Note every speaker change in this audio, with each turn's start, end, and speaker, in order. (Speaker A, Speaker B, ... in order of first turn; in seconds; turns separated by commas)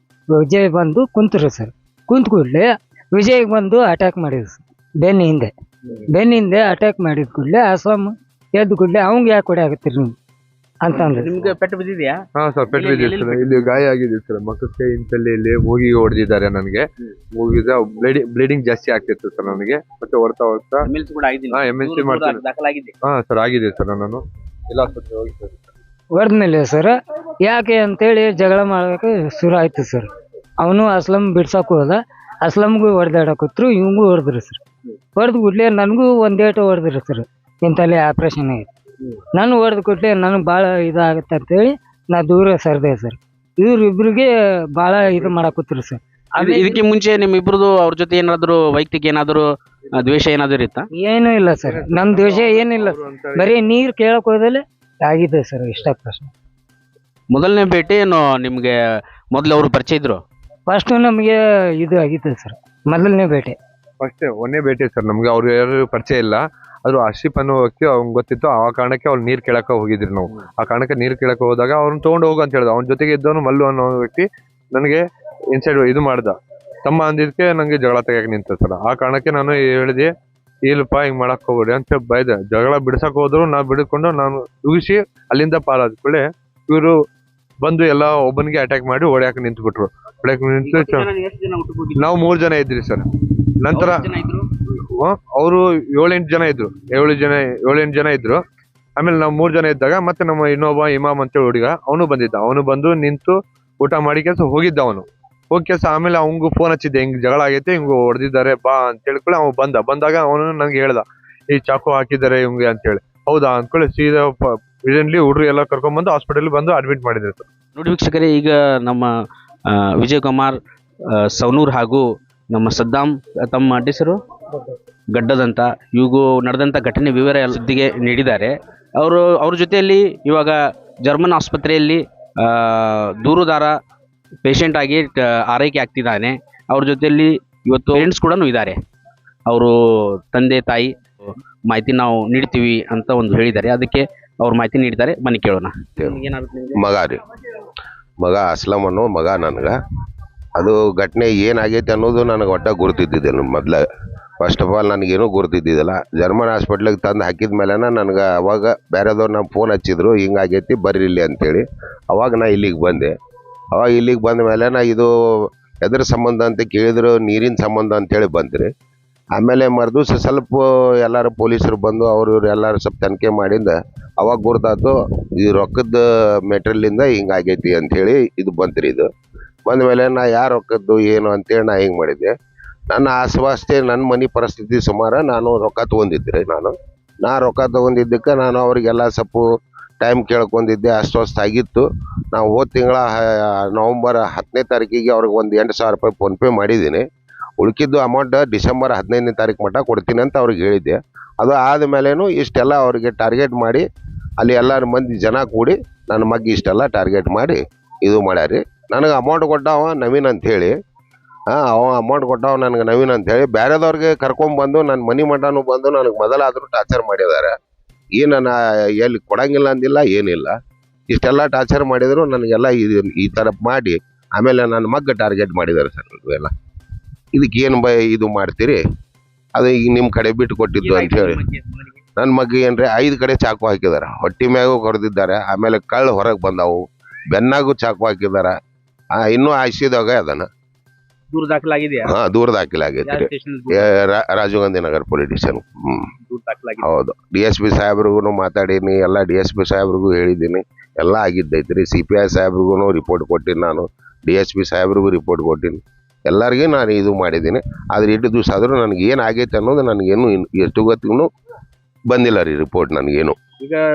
Speaker A: 0.4-5.5, Speaker A: 6.1-10.2, Speaker A: 10.8-11.5, Speaker B: 10.9-12.2, Speaker C: 12.4-20.9, Speaker B: 12.7-13.6, Speaker B: 20.8-22.9, Speaker C: 21.5-22.4, Speaker C: 23.0-25.6, Speaker A: 26.2-30.1, Speaker A: 30.6-34.6, Speaker A: 35.1-38.7, Speaker A: 39.4-46.8, Speaker B: 46.4-49.5, Speaker B: 50.0-50.9, Speaker A: 51.0-56.3, Speaker C: 51.7-53.5, Speaker B: 57.3-58.7, Speaker B: 59.4-60.2, Speaker A: 60.7-63.6, Speaker C: 64.0-75.0, Speaker C: 75.5-80.1, Speaker C: 80.7-87.0, Speaker C: 87.6-91.1, Speaker B: 90.6-92.1, Speaker C: 92.0-93.0, Speaker C: 93.6-94.1, Speaker B: 93.7-94.5, Speaker C: 95.0-98.4, Speaker C: 99.0-117.5, Speaker B: 117.8-119.1, Speaker B: 119.9-120.5, Speaker B: 121.2-124.2, Speaker B: 125.1-133.7, Speaker B: 134.4-138.8, Speaker B: 139.5-139.7, Speaker B: 140.3-141.0, Speaker B: 141.7-146.9, Speaker D: 146.7-147.2, Speaker D: 148.2-149.8, Speaker D: 150.6-153.8, Speaker D: 154.4-163.1, Speaker D: 163.7-165.1, Speaker D: 165.8-168.7, Speaker D: 169.4-179.1, Speaker D: 179.7-182.3, Speaker D: 182.9-189.4, Speaker D: 190.0-193.2, Speaker D: 193.7-197.0, Speaker D: 197.6-203.8, Speaker D: 204.4-210.8, Speaker D: 211.5-217.5, Speaker D: 218.2-220.6, Speaker D: 221.1-226.5, Speaker D: 227.3-228.8, Speaker D: 229.6-231.4, Speaker B: 230.8-232.0, Speaker D: 232.2-238.6, Speaker D: 239.2-240.5, Speaker B: 241.3-242.1, Speaker D: 242.1-246.1, Speaker B: 243.0-243.9, Speaker B: 246.3-246.9, Speaker D: 246.8-261.3, Speaker D: 262.1-263.4